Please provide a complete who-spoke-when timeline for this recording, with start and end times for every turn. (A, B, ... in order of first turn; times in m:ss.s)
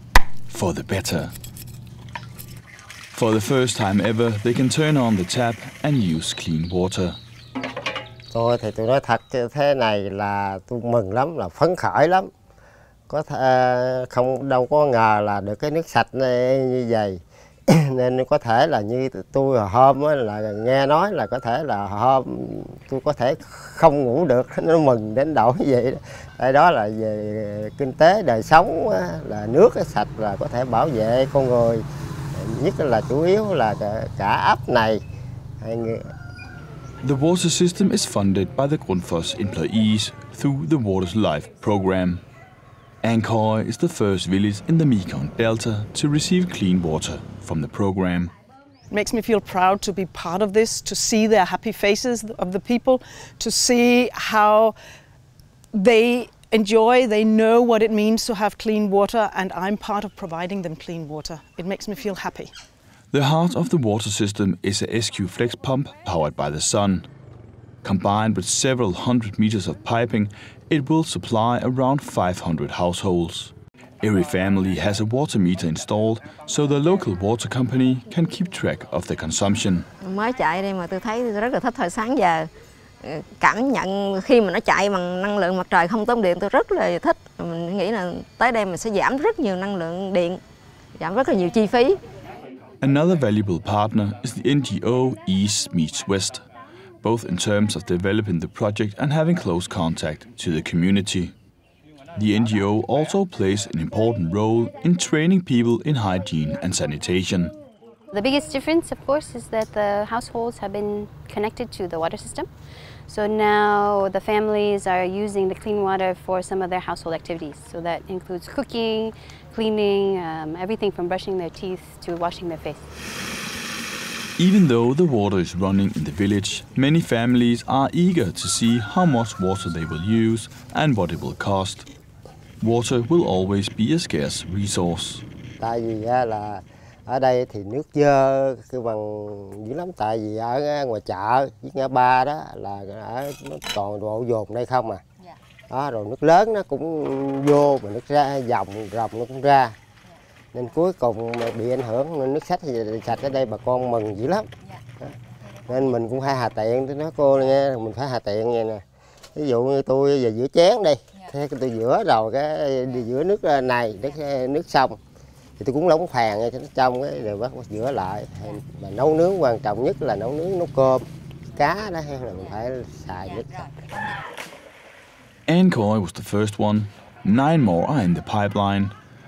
0:00.5-0:01.3 A
0:03.1-0:07.2 A
0:08.3-0:12.3 B
0:13.1-0:35.0 B
0:35.6-0:36.1 B
0:37.0-0:42.2 A
0:43.0-0:48.3 A
0:48.9-0:54.8 C
0:55.7-1:02.5 C
1:03.1-1:07.0 A
1:07.8-1:19.8 A
1:20.0-1:22.5 D
1:23.0-1:30.4 D
1:31.0-1:32.0 D
1:32.8-1:36.4 A
1:37.0-1:41.3 A
1:42.1-1:47.5 A
1:48.1-1:52.5 E
1:53.1-2:02.9 E
2:04.4-2:11.8 A
2:12.6-2:15.2 A
2:15.6-2:25.0 B
2:25.7-2:29.7 B
2:30.5-2:34.5 B
2:35.0-2:38.8 B
2:39.3-2:45.0 B
2:45.6-2:53.7 B
2:55.5-2:58.9 A